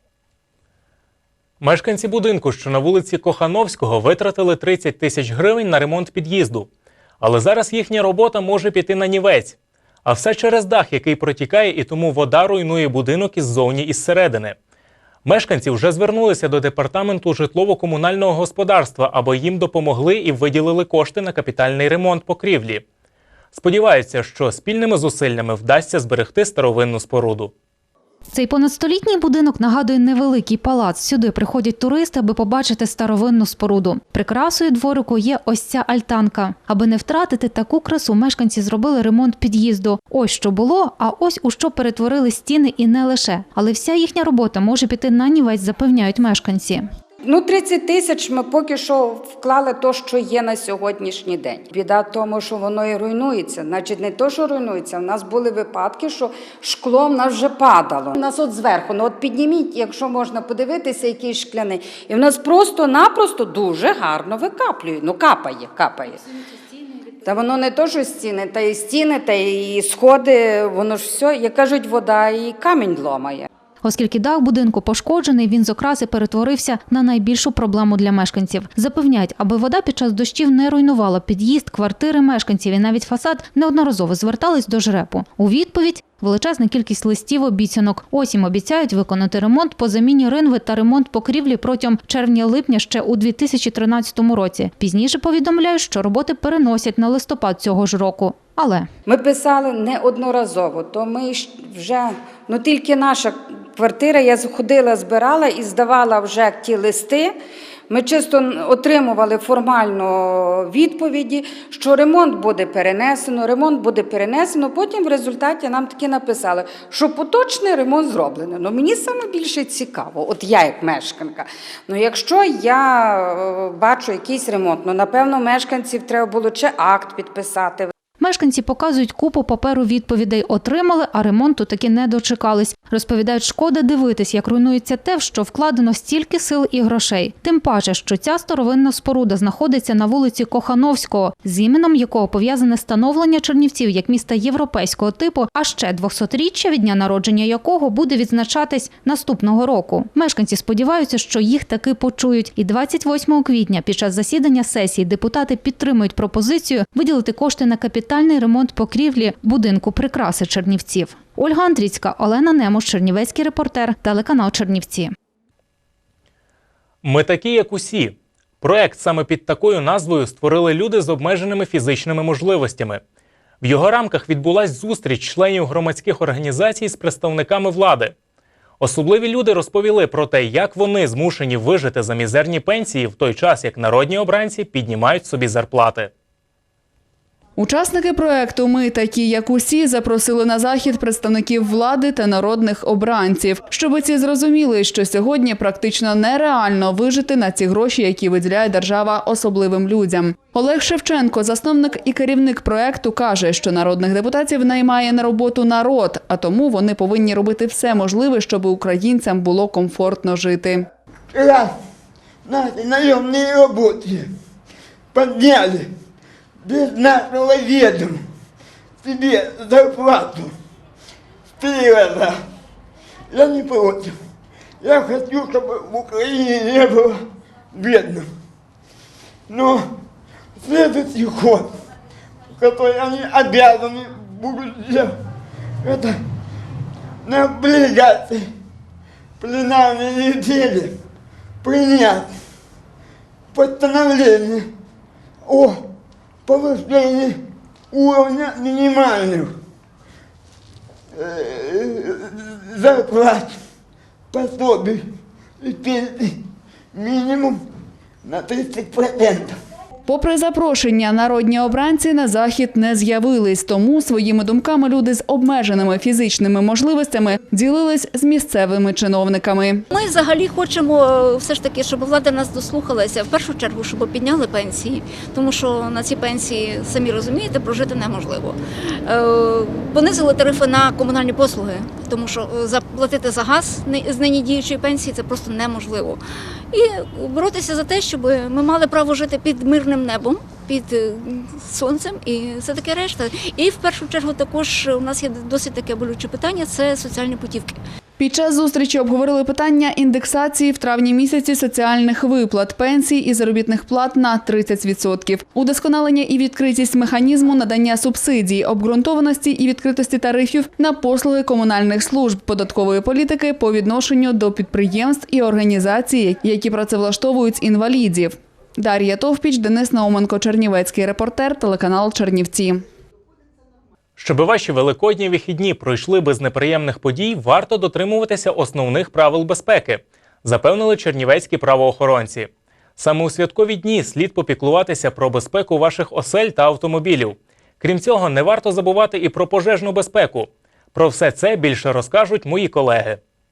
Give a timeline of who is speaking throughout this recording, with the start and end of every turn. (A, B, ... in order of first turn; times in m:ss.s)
0:01.6-0:06.7 A
0:07.2-0:14.6 A
0:15.2-0:22.8 A
0:23.5-0:27.5 A
0:28.3-0:46.9 B
0:47.2-1:06.2 C
1:07.2-1:13.5 C
1:13.8-1:38.9 B
1:39.1-1:47.4 C
1:47.9-2:07.9 C
2:08.2-2:45.1 B
2:47.0-2:53.0 A
2:53.6-2:58.1 A
2:58.8-3:06.1 A
3:07.6-3:30.8 D
3:31.3-3:31.7 E
3:32.4-3:34.3 E
3:35.1-3:35.9 E
3:36.6-3:38.2 E
3:39.0-3:40.5 E
3:41.6-3:42.4 E
3:43.3-3:44.2 E
3:44.8-3:47.2 E
3:47.7-3:48.3 E
3:49.5-3:49.8 E
3:50.6-3:51.7 E
3:52.6-3:55.1 E
3:55.8-3:56.2 E
3:57.2-3:58.5 E
3:59.4-4:00.9 E
4:01.6-4:02.3 E
4:03.5-4:04.7 E
4:05.4-4:05.8 E
4:06.5-4:07.4 E
4:07.9-4:09.5 E
4:11.2-4:13.6 E
4:14.3-4:15.0 E
4:15.6-4:16.4 E
4:16.9-4:17.6 E
4:18.2-4:19.5 E
4:20.1-4:29.8 D
4:29.9-4:57.8 F
4:58.2-5:22.8 D
5:24.2-5:43.2 A